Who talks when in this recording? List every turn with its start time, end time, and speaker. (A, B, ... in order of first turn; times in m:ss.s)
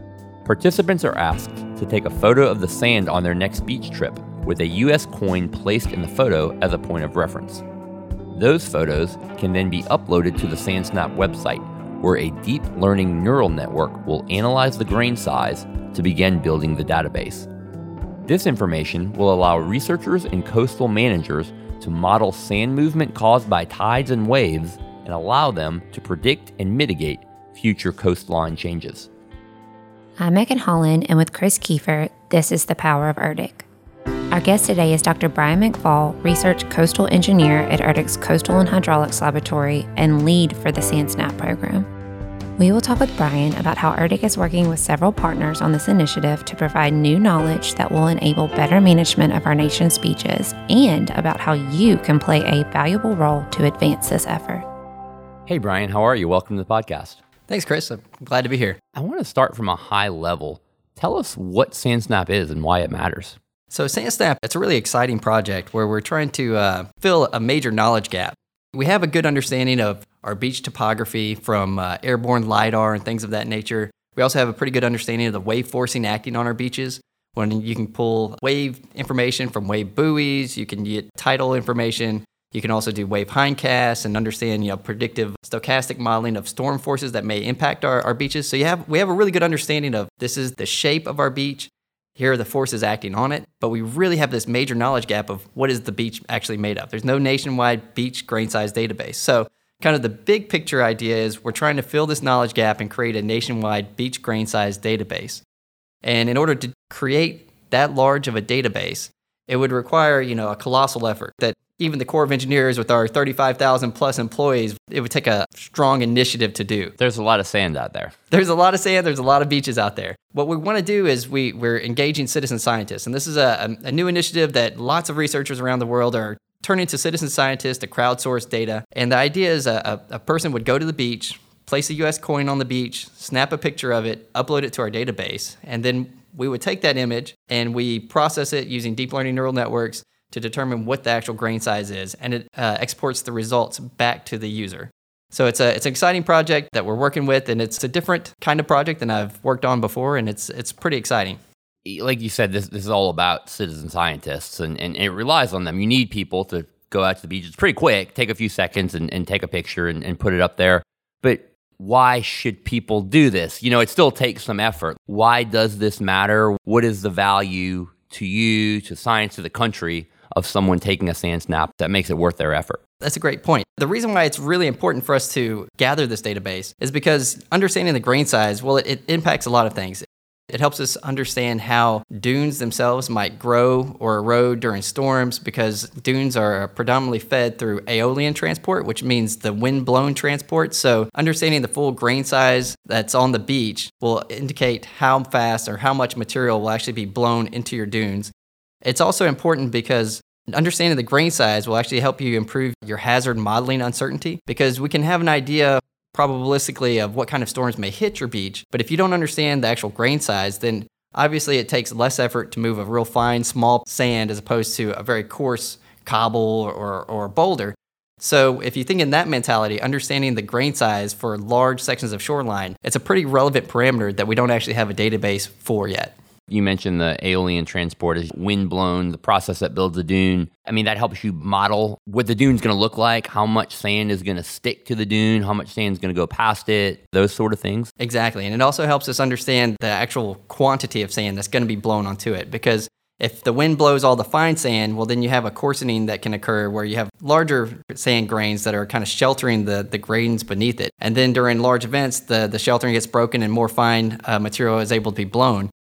0:00.4-0:07.6 A
0:08.3-0:17.5 A
0:18.3-0:29.1 A
0:30.2-0:33.7 B
0:34.3-0:41.9 B
0:42.6-0:54.6 B
0:55.5-0:57.2 A
0:57.5-0:58.8 C
0:59.0-1:03.4 A
1:03.7-1:45.4 C
1:46.0-1:56.9 C
1:57.0-1:58.2 A
1:58.3-2:31.4 C
2:31.8-2:52.8 A
2:53.0-3:18.3 C
3:18.8-3:46.1 C
3:46.5-3:57.9 A
3:58.0-4:15.7 C